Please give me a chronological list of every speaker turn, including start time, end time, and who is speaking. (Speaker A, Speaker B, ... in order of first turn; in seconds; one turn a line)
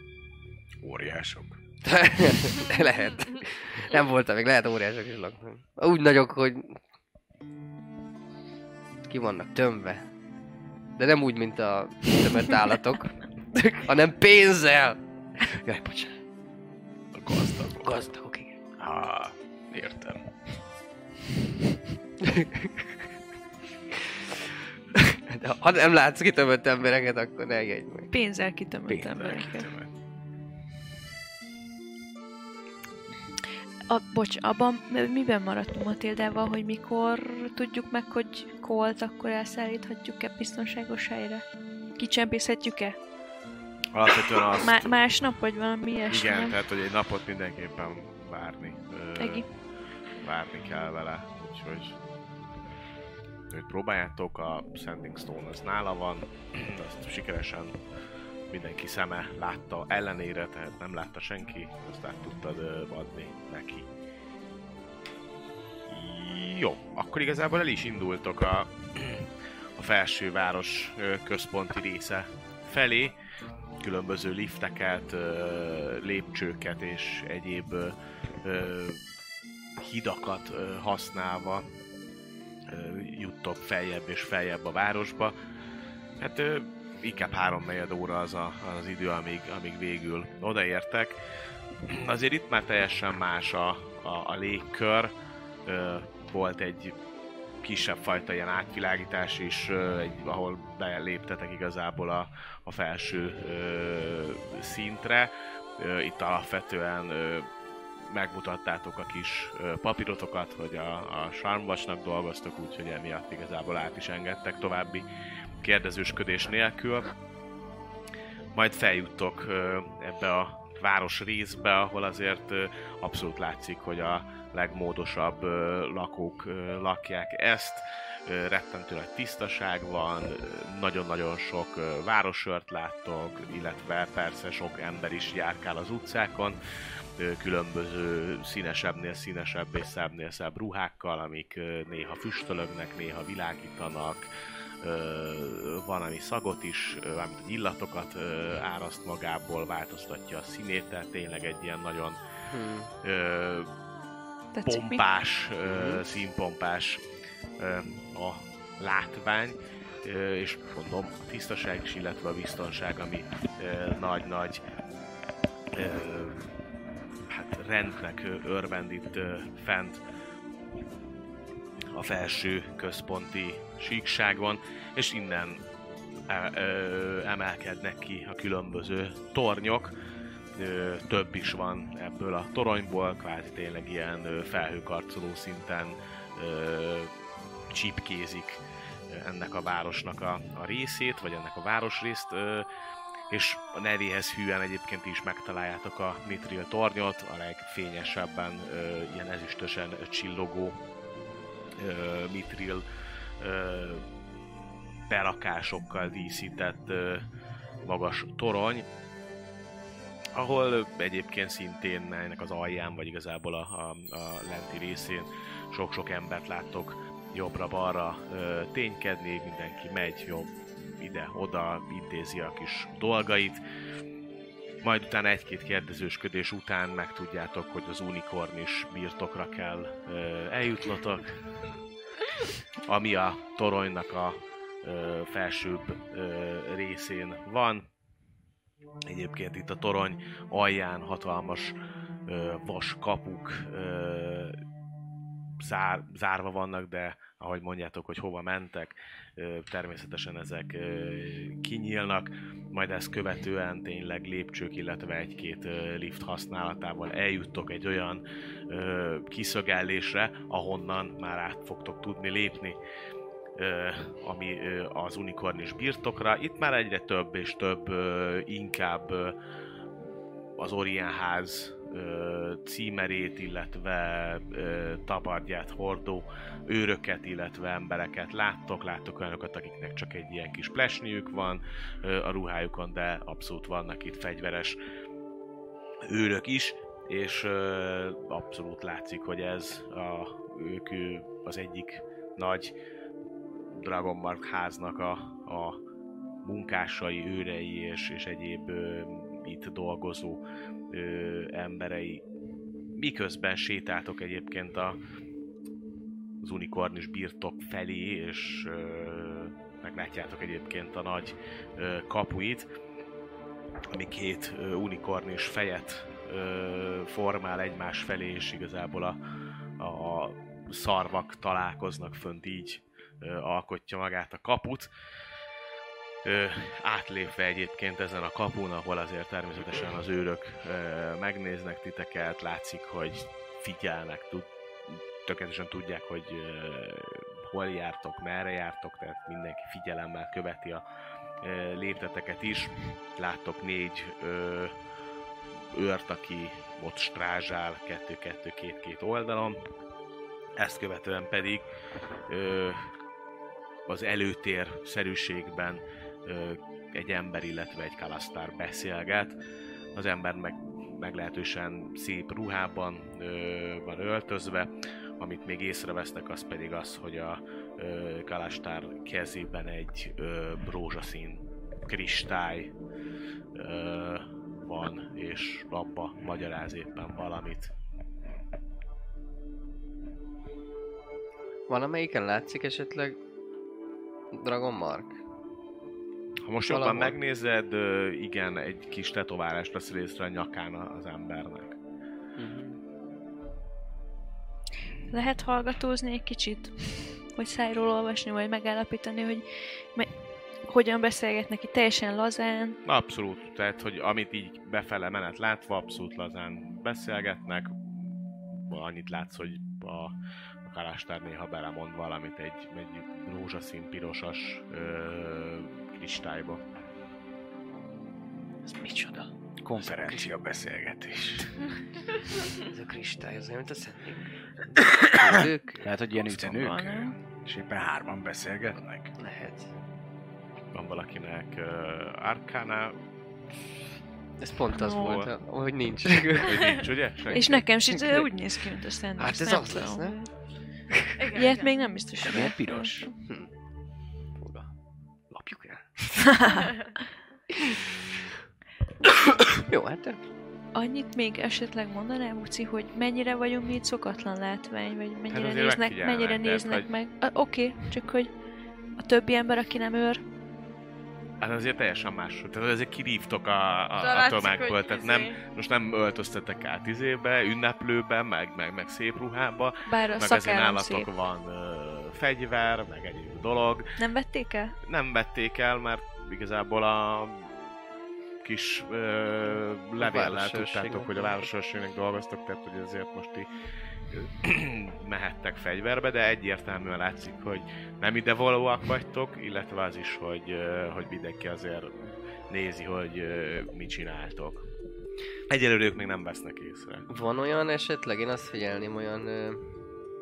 Speaker A: 0.8-1.6
Speaker B: 1.8-6.8
Speaker B: 9.1-10.1
Speaker B: 11.0-16.2
Speaker A: 17.1-18.1
Speaker B: 17.7-18.6
Speaker A: 18.8-20.3
Speaker B: 22.2-23.0
Speaker B: 23.9-28.1
Speaker C: 28.1-29.7
Speaker A: 28.9-29.9
Speaker C: 33.9-41.4
Speaker C: 42.0-43.0
Speaker D: 43.9-45.0
Speaker C: 44.5-46.6
Speaker D: 46.1-49.4
Speaker C: 49.2-49.5
Speaker D: 50.2-52.0
Speaker D: 53.5-57.8
Speaker D: 58.5-63.9
Speaker D: 65.9-73.2
Speaker D: 73.8-79.0
Speaker D: 79.8-81.7
Speaker D: 82.7-85.4
Speaker D: 86.2-91.2
Speaker D: 91.9-95.1
Speaker D: 95.7-97.0
Speaker D: 97.6-107.5
Speaker D: 108.1-115.0
Speaker D: 115.6-117.1
Speaker D: 118.5-136.6
Speaker D: 137.2-144.3
Speaker D: 144.8-152.2
Speaker B: 152.5-152.9
Speaker D: 153.0-153.7
Speaker C: 154.5-155.0
Speaker D: 154.7-157.0
Speaker B: 155.7-156.0
Speaker D: 157.6-164.6
Speaker D: 165.7-166.5
Speaker D: 167.3-170.0
Speaker D: 171.9-175.6
Speaker D: 176.3-179.9
Speaker D: 180.5-187.1
Speaker D: 187.7-192.7
Speaker D: 193.3-200.8
Speaker D: 201.8-202.8
Speaker D: 203.4-204.1
Speaker D: 205.1-207.3
Speaker D: 207.8-208.9
Speaker D: 210.3-223.6
Speaker D: 224.8-231.4
Speaker D: 232.8-237.9
Speaker D: 239.1-241.8
Speaker D: 242.3-244.6
Speaker D: 245.6-262.8
Speaker D: 263.6-269.4
Speaker D: 270.6-284.8
Speaker D: 286.1-292.8
Speaker D: 293.7-295.8
Speaker D: 296.4-302.2
Speaker D: 302.9-305.0
Speaker D: 306.4-312.7
Speaker D: 313.9-319.2
Speaker D: 319.8-324.9
Speaker D: 326.2-340.8
Speaker D: 341.4-344.8
Speaker D: 345.7-349.6
Speaker D: 350.6-351.6
Speaker D: 352.3-352.9
Speaker D: 353.9-359.4
Speaker D: 359.9-372.7
Speaker D: 373.6-377.7
Speaker B: 381.7-383.2
Speaker B: 384.3-385.2
Speaker D: 386.5-391.8
Speaker B: 386.7-387.1
Speaker B: 392.4-392.8
Speaker C: 395.1-400.1
Speaker C: 400.7-402.8
Speaker D: 402.9-408.0
Speaker D: 408.6-416.6
Speaker B: 418.6-419.3
Speaker A: 419.6-421.5
Speaker B: 422.5-425.9
Speaker A: 425.8-429.1
Speaker C: 426.2-427.1
Speaker B: 429.2-429.7
Speaker D: 430.7-433.0
Speaker B: 434.4-436.6
Speaker C: 434.7-435.3
Speaker D: 435.0-435.4
Speaker D: 436.4-437.5
Speaker B: 437.3-438.4
Speaker C: 437.3-440.3
Speaker B: 439.2-440.1
Speaker E: 441.2-441.8
Speaker C: 441.4-443.1
Speaker A: 442.2-443.1
Speaker B: 443.2-443.5
Speaker B: 444.4-444.7
Speaker B: 445.3-446.5
Speaker C: 446.3-446.7
Speaker B: 447.5-447.9
Speaker B: 449.4-450.2
Speaker C: 450.7-458.3
Speaker D: 455.3-456.9
Speaker C: 459.0-460.2
Speaker D: 461.4-473.9
Speaker E: 464.0-465.4
Speaker C: 469.9-471.1
Speaker C: 474.0-474.8
Speaker D: 474.8-477.6
Speaker D: 478.4-483.5
Speaker B: 480.0-481.1
Speaker D: 484.1-494.7
Speaker D: 495.5-497.1
Speaker B: 497.1-499.6